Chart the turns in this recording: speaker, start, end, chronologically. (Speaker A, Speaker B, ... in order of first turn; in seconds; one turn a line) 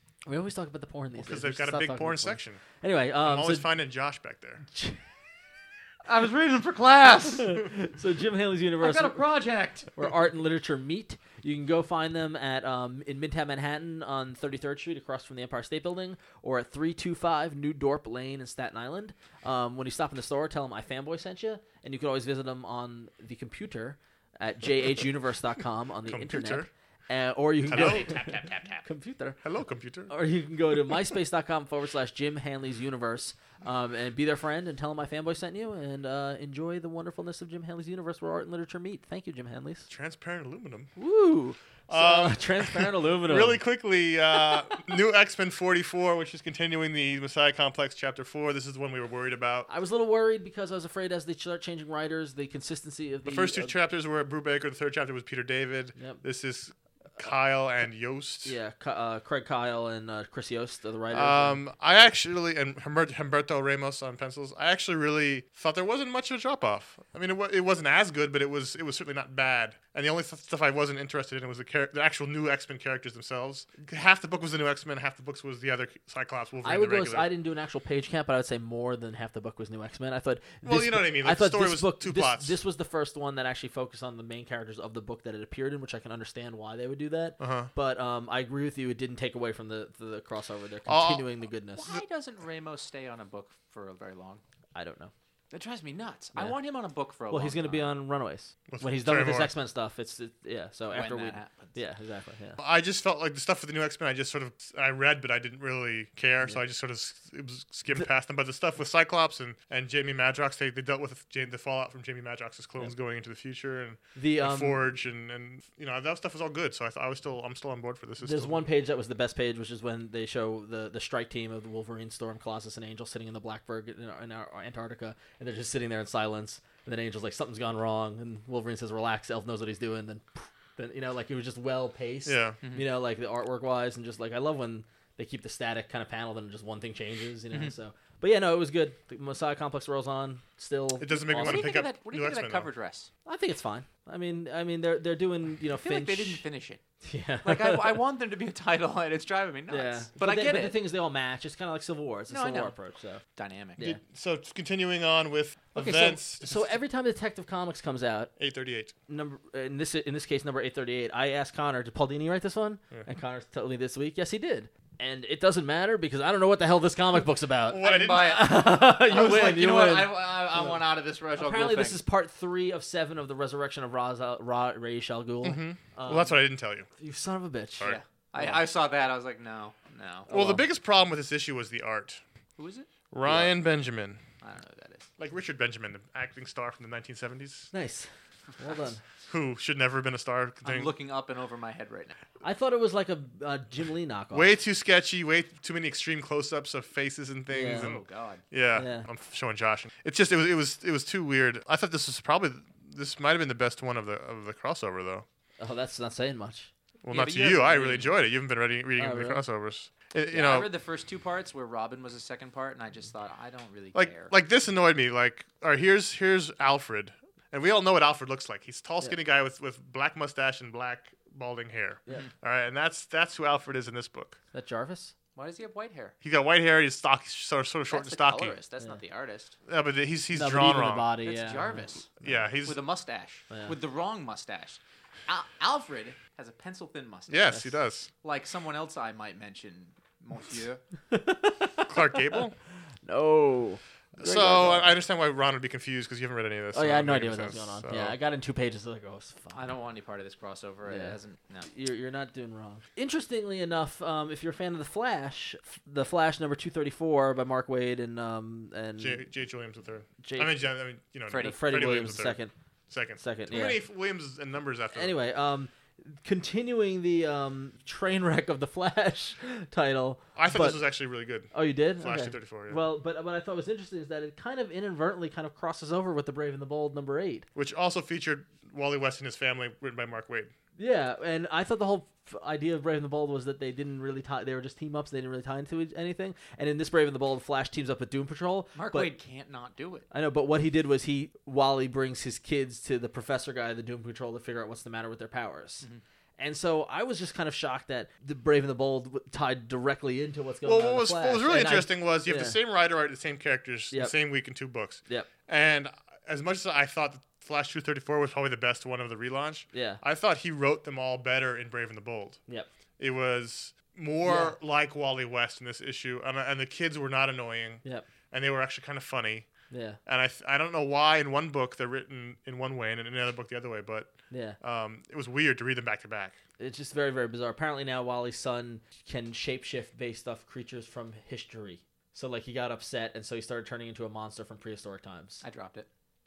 Speaker A: 0.3-3.7
Speaker B: 1.2-2.6
Speaker B: 3.2-4.6
Speaker A: 4.7-5.0
Speaker C: 6.0-7.6
Speaker A: 7.3-9.2
Speaker C: 8.8-9.9
Speaker A: 9.9-29.4
Speaker B: 26.1-26.7
Speaker B: 27.7-28.2
Speaker C: 27.7-28.9
Speaker B: 29.4-30.1
Speaker A: 30.1-39.9
Speaker B: 39.9-40.9
Speaker A: 41.0-43.6
Speaker B: 41.9-49.7
Speaker A: 49.7-53.7
Speaker B: 53.2-58.6
Speaker A: 56.0-56.2
Speaker A: 58.5-61.6
Speaker B: 61.1-77.3
Speaker A: 76.6-91.9
Speaker B: 80.6-82.6
Speaker B: 87.4-87.7
Speaker B: 90.9-91.3
Speaker C: 91.8-94.4
Speaker A: 94.8-95.1
Speaker C: 95.5-97.9
Speaker A: 97.3-102.6
Speaker B: 98.7-99.5
Speaker C: 100.9-101.8
Speaker B: 102.6-118.7
Speaker A: 114.2-114.8
Speaker A: 118.2-141.7
Speaker B: 132.3-132.6
Speaker B: 141.0-142.7
Speaker C: 141.3-143.1
Speaker A: 143.3-146.4
Speaker C: 145.7-146.8
Speaker A: 147.0-148.0
Speaker C: 147.4-150.8
Speaker A: 149.7-153.2
Speaker C: 152.3-152.8
Speaker C: 153.3-153.8
Speaker B: 154.1-156.8
Speaker A: 155.8-158.3
Speaker B: 158.4-158.9
Speaker A: 159.1-170.8
Speaker B: 167.7-168.5
Speaker C: 167.8-172.0
Speaker A: 171.3-178.6
Speaker B: 175.4-176.9
Speaker C: 177.8-180.3
Speaker A: 180.3-180.6
Speaker B: 180.3-182.2
Speaker C: 182.6-183.6
Speaker B: 183.1-184.2
Speaker C: 184.4-185.1
Speaker B: 185.2-187.7
Speaker A: 187.7-189.0
Speaker B: 189.3-190.9
Speaker C: 190.6-192.2
Speaker A: 192.4-194.6
Speaker B: 194.3-205.3
Speaker A: 197.5-197.9
Speaker C: 197.7-198.4
Speaker A: 198.8-199.1
Speaker A: 205.6-206.7
Speaker B: 207.0-210.7
Speaker C: 207.1-208.1
Speaker A: 209.0-209.4
Speaker C: 210.3-214.3
Speaker B: 213.9-224.4
Speaker A: 224.5-225.1
Speaker C: 225.4-226.2
Speaker B: 226.2-228.6
Speaker C: 227.9-229.6
Speaker B: 229.7-231.1
Speaker A: 230.3-231.9
Speaker C: 231.2-237.5
Speaker B: 232.2-232.8
Speaker A: 233.5-233.8
Speaker B: 237.3-238.1
Speaker C: 238.2-240.8
Speaker A: 241.1-242.4
Speaker B: 241.8-242.6
Speaker A: 243.0-245.0
Speaker B: 244.2-248.2
Speaker A: 246.7-249.6
Speaker C: 249.5-251.7
Speaker A: 250.8-251.2
Speaker A: 251.7-259.3
Speaker B: 259.0-265.2
Speaker A: 260.2-260.6
Speaker C: 261.3-261.6
Speaker A: 261.4-262.5
Speaker A: 263.2-263.8
Speaker A: 264.9-270.8
Speaker B: 270.4-272.8
Speaker A: 271.5-277.5
Speaker B: 277.6-280.5
Speaker A: 280.8-289.1
Speaker C: 288.8-290.1
Speaker A: 290.1-295.9
Speaker A: 296.4-302.6
Speaker B: 300.6-312.4
Speaker A: 309.7-310.0
Speaker B: 313.0-319.5
Speaker A: 314.2-314.6
Speaker A: 319.7-320.0
Speaker B: 320.1-326.4
Speaker A: 324.3-324.6
Speaker A: 326.6-335.4
Speaker C: 335.4-335.9